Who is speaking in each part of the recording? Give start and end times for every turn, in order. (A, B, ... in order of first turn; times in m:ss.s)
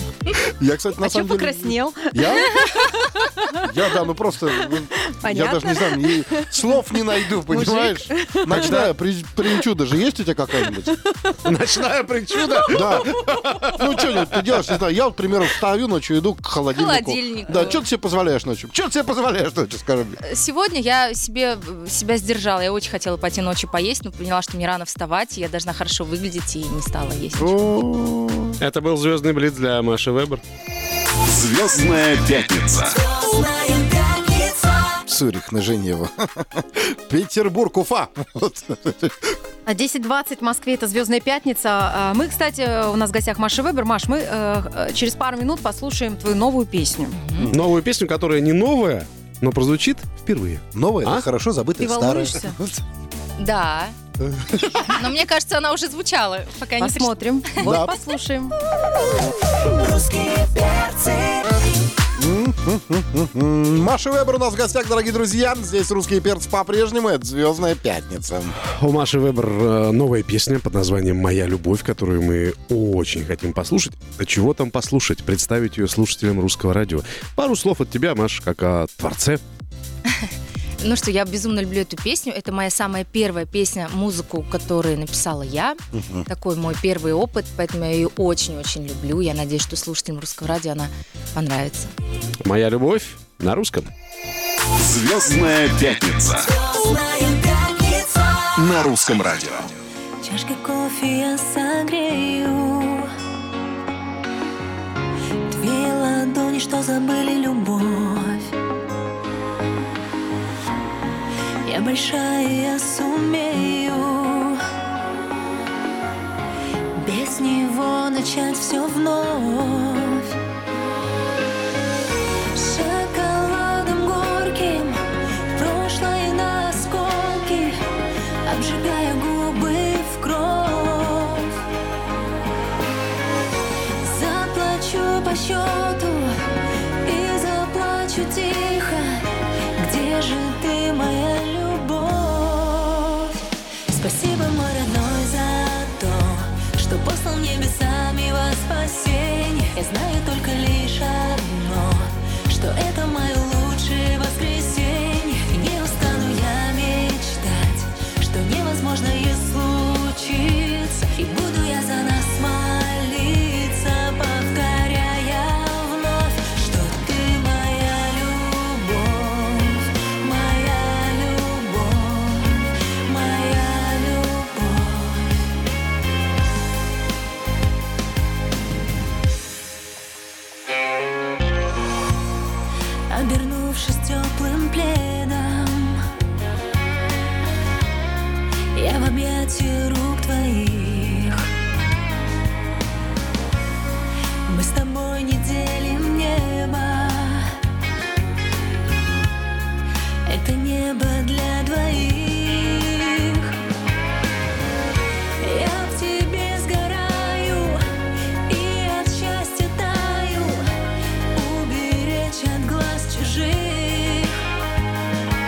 0:00.3-0:02.6 A
0:01.0-0:03.7 B
0:03.6-0:10.9 A
0:05.1-0:06.6 B
0:07.5-0:08.7 B
0:08.5-0:08.9 C
0:11.4-0:14.2 C
0:12.7-0:13.2 A
0:13.7-0:20.2 A
0:16.7-0:17.8 D
0:20.2-0:27.7 D
0:27.4-0:28.6 A
0:28.6-0:30.4 C
0:31.3-0:32.9 E
0:35.0-0:39.4 A
0:39.6-0:47.2 B
0:47.2-0:47.5 D
0:47.5-0:51.2 C
0:50.7-0:52.8 A
0:51.8-0:52.6 B
0:53.4-0:53.9 D
0:54.6-0:57.8 D
0:56.8-0:58.6 B
0:57.6-0:57.9 A
1:00.4-1:00.8 F
1:02.2-1:08.5 A
1:08.8-1:19.4 C
1:20.8-1:31.9 D
1:25.9-1:26.2 A
1:32.4-1:33.9 C
1:34.8-1:36.3 E
1:36.4-1:38.4 F
1:38.6-1:39.6 E
1:40.2-1:43.1 F
1:45.5-1:48.5 F
1:51.6-1:54.6 F
1:57.0-2:00.4 F
2:02.5-2:05.0 F
2:05.5-2:07.8 F
2:08.4-2:11.6 F
2:14.0-2:16.3 F
2:17.0-2:55.4 F
3:03.1-3:06.0 F
3:08.7-3:11.5 F
3:14.5-3:17.5 F
3:20.2-3:23.5 F
3:25.4-3:27.8 F
3:28.5-3:30.7 F
3:31.3-3:34.4 F